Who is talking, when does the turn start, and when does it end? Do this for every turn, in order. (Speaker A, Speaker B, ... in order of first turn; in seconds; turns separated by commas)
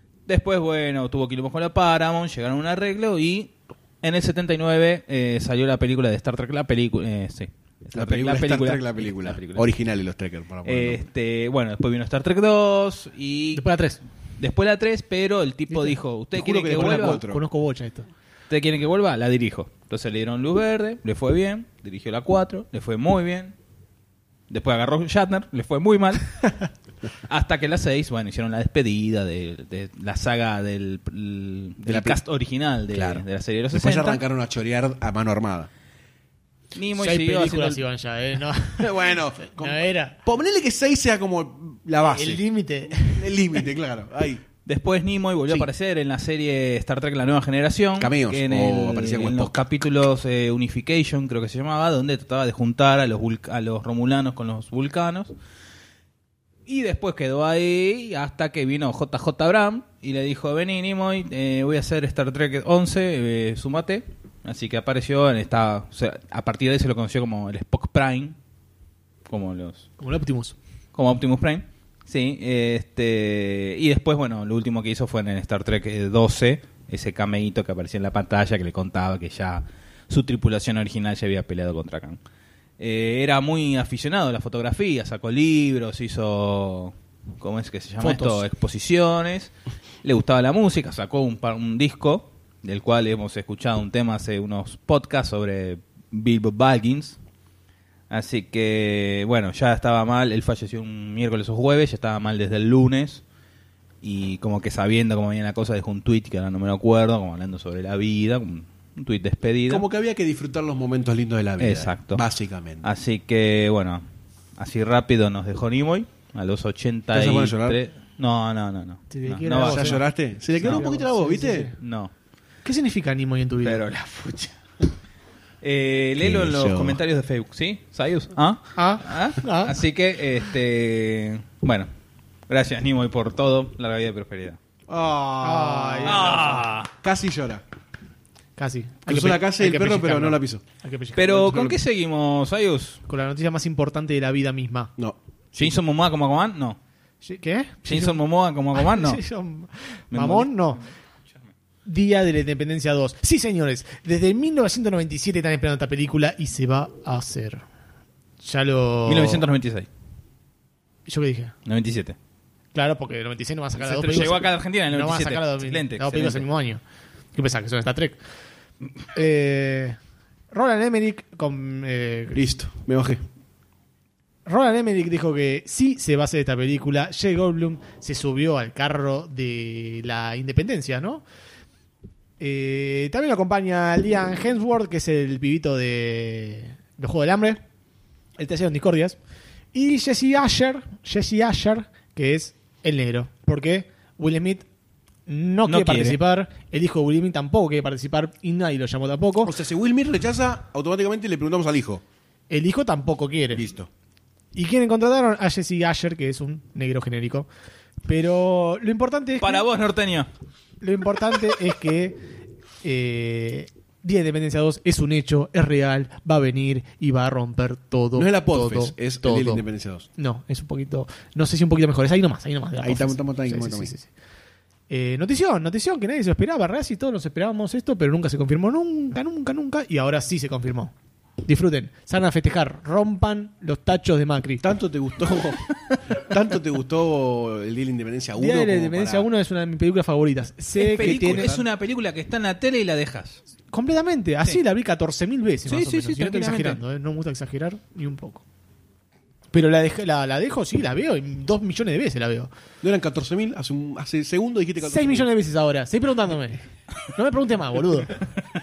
Speaker A: 0.3-9.7, Speaker B: 8.0-11.0, Speaker A: 10.7-13.7, Speaker C: 13.5-14.0, Speaker A: 14.4-17.2, Speaker C: 15.7-16.0, Speaker B: 16.4-17.4, Speaker C: 16.7-18.1, Speaker A: 18.5-23.5, Speaker A: 24.5-26.4, Speaker A: 27.3-34.2, Speaker B: 31.8-32.2, Speaker B: 32.9-35.7, Speaker A: 36.8-37.8, Speaker C: 37.0-40.2, Speaker B: 38.8-42.4, Speaker C: 42.0-43.4, Speaker B: 43.0-44.4, Speaker A: 44.7-55.3, Speaker B: 48.0-49.6, Speaker A: 56.7-68.4, Speaker A: 69.3-69.8, Speaker C: 70.0-70.6, Speaker A: 71.0-82.2, Speaker A: 82.8-89.5, Speaker C: 88.0-88.5, Speaker A: 90.0-97.2, Speaker A: 98.1-103.2, Speaker A: 104.0-109.8, Speaker B: 109.7-112.9, Speaker A: 111.6-112.2, Speaker A: 112.8-114.0, Speaker A: 114.6-120.0, Speaker B: 117.1-117.8, Speaker C: 119.1-121.7, Speaker B: 119.6-121.7, Speaker A: 120.6-120.9, Speaker A: 121.8-122.1, Speaker C: 122.7-123.8, Speaker A: 123.6-124.5, Speaker A: 125.6-131.9, Speaker B: 126.2-127.0, Speaker C: 128.8-129.8, Speaker A: 132.5-134.6, Speaker B: 134.9-137.6, Speaker C: 135.4-136.7, Speaker A: 136.1-136.9, Speaker C: 138.6-141.8, Speaker B: 139.1-140.6, Speaker A: 141.2-143.0, Speaker C: 143.1-144.9, Speaker A: 145.6-146.8, Speaker C: 147.2-148.2, Speaker A: 147.9-149.2, Speaker C: 148.7-150.8, Speaker A: 150.1-150.8, Speaker C: 151.9-157.6, Speaker C: 158.4-159.5, Speaker A: 159.1-159.9, Speaker C: 161.1-161.5, Speaker A: 161.7-162.2, Speaker C: 162.7-166.8, Speaker A: 163.8-166.5, Speaker C: 167.3-168.2, Speaker C: 169.1-170.0, Speaker C: 170.5-172.4, Speaker B: 172.3-173.2, Speaker C: 174.5-181.2, Speaker C: 182.4-187.6, Speaker C: 188.4-189.2, Speaker C: 189.7-194.7, Speaker C: 195.3-199.6, Speaker A: 195.7-196.2, Speaker B: 199.4-202.0, Speaker C: 202.5-203.7, Speaker B: 203.5-203.9, Speaker C: 204.5-207.5, Speaker C: 208.1-209.7, Speaker A: 209.4-210.3, Speaker C: 210.8-212.2, Speaker C: 212.8-219.7, Speaker B: 218.2-220.1, Speaker C: 220.2-224.1, Speaker B: 222.8-223.9, Speaker C: 224.9-230.9, Speaker C: 231.4-234.6, Speaker B: 234.6-239.3, Speaker C: 238.4-241.6, Speaker A: 240.8-243.4, Speaker B: 241.0-241.6, Speaker C: 243.7-248.4, Speaker A: 245.7-246.8, Speaker C: 249.5-252.5, Speaker B: 252.8-255.3, Speaker C: 254.8-256.6, Speaker C: 257.1-258.1